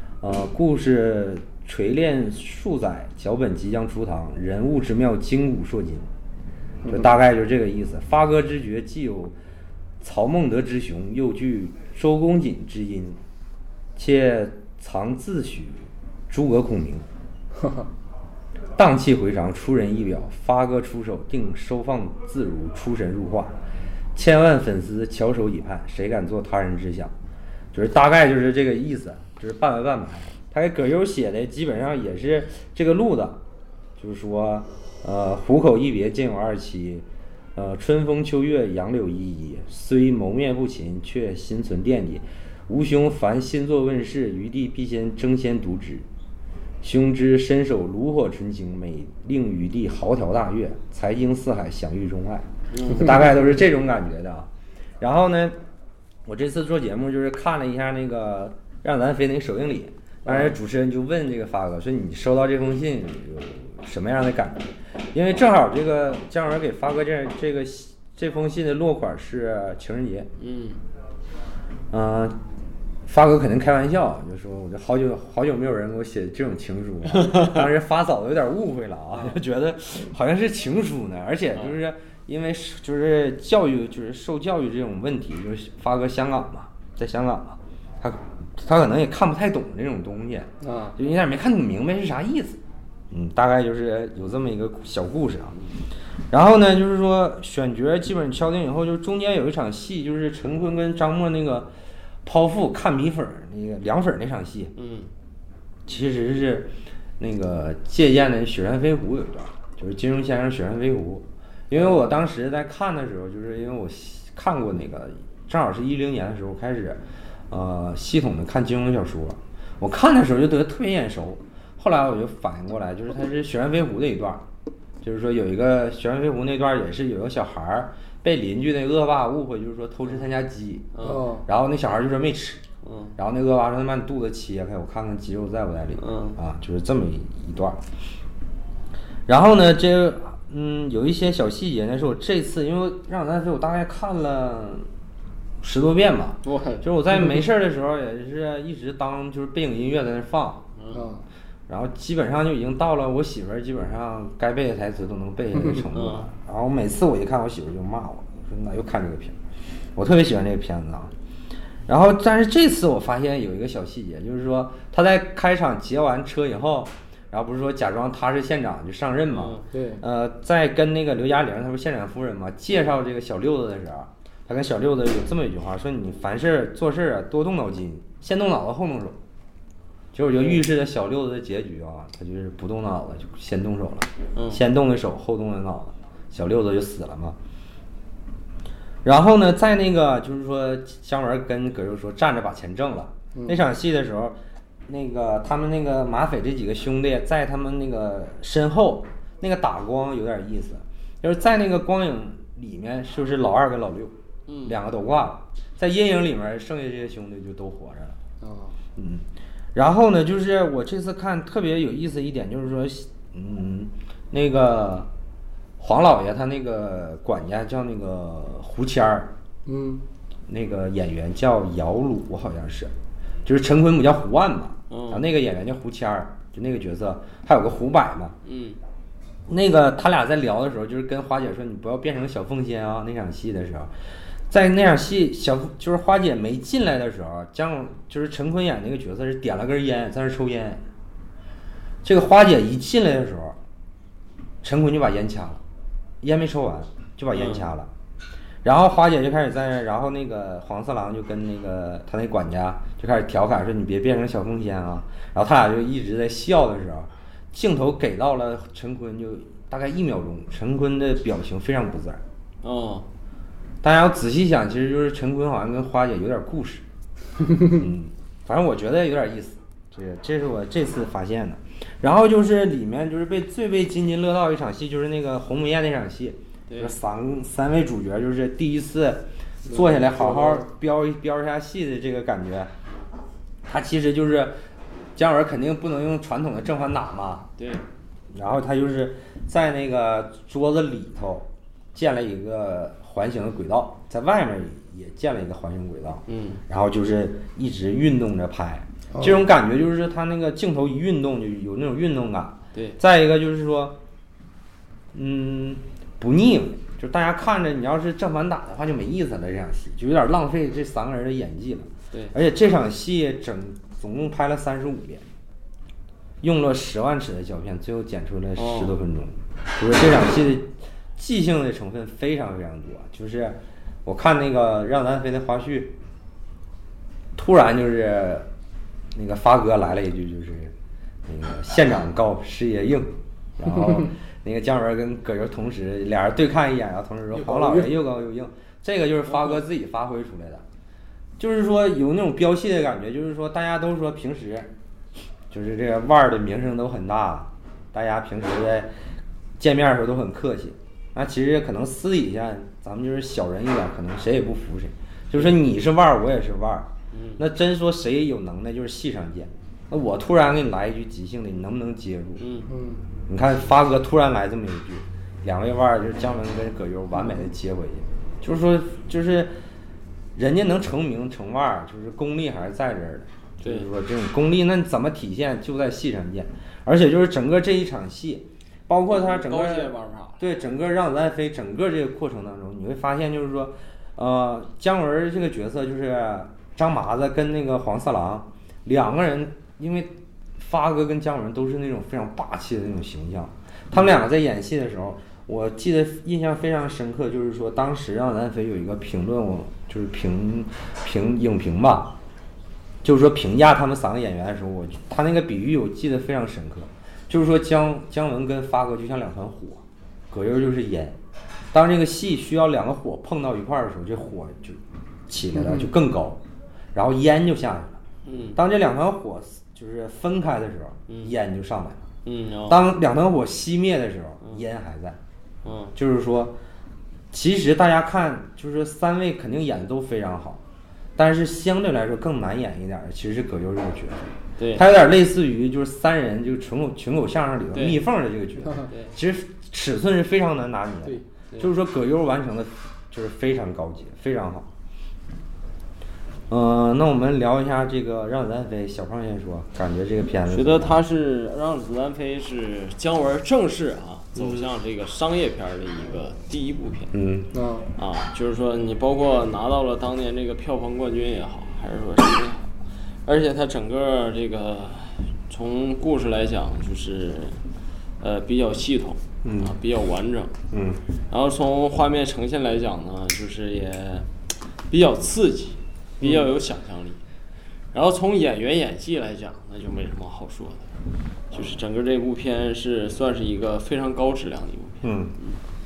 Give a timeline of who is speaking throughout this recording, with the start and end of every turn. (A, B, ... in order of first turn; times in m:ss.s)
0:00.2-0:06.1 A
0:06.8-0:07.1 B
0:06.9-0:09.4 A
0:10.0-0:13.2 A
0:14.0-0:17.1 A
0:18.8-0:23.5 A
0:24.2-0:27.1 A
0:27.7-0:33.4 A
0:34.0-0:46.0 A
0:46.8-0:54.5 A
0:52.7-0:53.2 C
0:55.0-0:55.6 A
0:56.3-1:10.3 A
1:10.4-1:10.8 C
1:11.9-1:12.4 A
1:13.1-1:32.6 A
1:17.3-1:17.6 C
1:30.6-1:31.0 B
1:33.1-1:35.6 A
1:36.3-1:41.7 A
1:42.2-1:44.7 A
1:44.8-1:45.1 C
1:45.9-2:04.4 A
2:05.0-2:10.9 A
2:10.9-2:11.3 C
2:11.0-2:11.5 B
2:11.4-2:12.6 A
2:12.8-2:13.2 C
2:13.2-2:17.8 A
2:16.0-2:16.4 C
2:19.3-2:24.9 A
2:25.6-2:30.7 A
2:26.4-2:26.8 C
2:30.8-2:31.1 C
2:30.9-2:31.2 B
2:31.7-2:39.4 A
2:35.6-2:35.8 B
2:35.9-2:36.3 C
2:40.0-2:41.1 A
2:41.9-2:59.2 A
2:49.3-2:49.6 C
2:49.6-2:50.0 B
3:00.1-3:07.4 A
3:00.3-3:00.6 C
3:04.4-3:04.6 C
3:09.0-3:24.1 A
3:13.3-3:13.6 B
3:24.5-3:24.8 C
3:24.6-3:28.2 A
3:28.4-3:28.8 B
3:29.0-3:29.2 A
3:29.8-3:35.1 A
3:35.8-3:39.3 A
3:39.7-3:40.0 B
3:40.5-3:42.9 A
3:43.5-3:48.4 A
3:44.9-3:45.2 C
3:48.4-3:48.8 C
3:49.5-3:53.9 A
3:54.5-4:00.8 A
4:02.0-4:03.6 A
4:04.6-4:05.6 A
4:06.2-4:07.9 A
4:07.3-4:07.7 C
4:08.6-4:22.2 A
4:22.6-4:23.1 C
4:23.8-4:26.8 A
4:27.6-4:42.7 A
4:36.7-4:36.9 C
4:39.7-4:40.7 B
4:43.6-4:44.6 A
4:45.2-4:47.5 A
4:47.6-4:47.8 C
4:48.3-5:04.0 A
4:56.3-4:56.6 C
4:59.1-4:59.4 B
5:05.1-5:15.2 A
5:16.4-5:26.0 A
5:18.6-5:19.0 C
5:27.4-5:28.5 A
5:29.2-5:30.7 A
5:31.3-5:40.6 A
5:37.3-5:37.9 B
5:41.4-5:44.7 A
5:45.5-5:48.9 A
5:49.6-6:02.5 A
5:57.1-5:57.4 C
6:02.4-6:02.7 C
6:02.7-6:03.0 B
6:03.3-6:09.6 A
6:10.4-6:42.2 A
6:13.6-6:13.9 C
6:19.1-6:20.4 C
6:43.0-6:51.2 A
6:51.7-6:56.4 A
6:55.6-6:55.9 B
6:56.9-6:58.0 A
6:58.2-6:58.6 C
6:58.6-7:02.1 A
7:02.2-7:02.8 C
7:02.7-7:05.2 A
7:05.6-7:06.0 C
7:06.0-7:06.6 A
7:07.3-7:10.6 A
7:11.2-7:24.7 A
7:14.6-7:14.8 C
7:17.7-7:18.0 C
7:18.9-7:19.1 C
7:26.5-7:31.0 A
7:30.5-7:37.1 C
7:37.1-7:37.5 A
7:37.5-7:37.9 B
7:38.0-7:42.7 C
7:43.2-7:47.6 C
7:48.2-7:50.5 C
7:49.4-7:49.8 A
7:50.7-7:51.0 A
7:51.3-7:54.3 C
7:54.9-7:57.2 C
7:57.9-8:01.0 C
8:01.5-8:05.5 C
8:05.0-8:05.4 A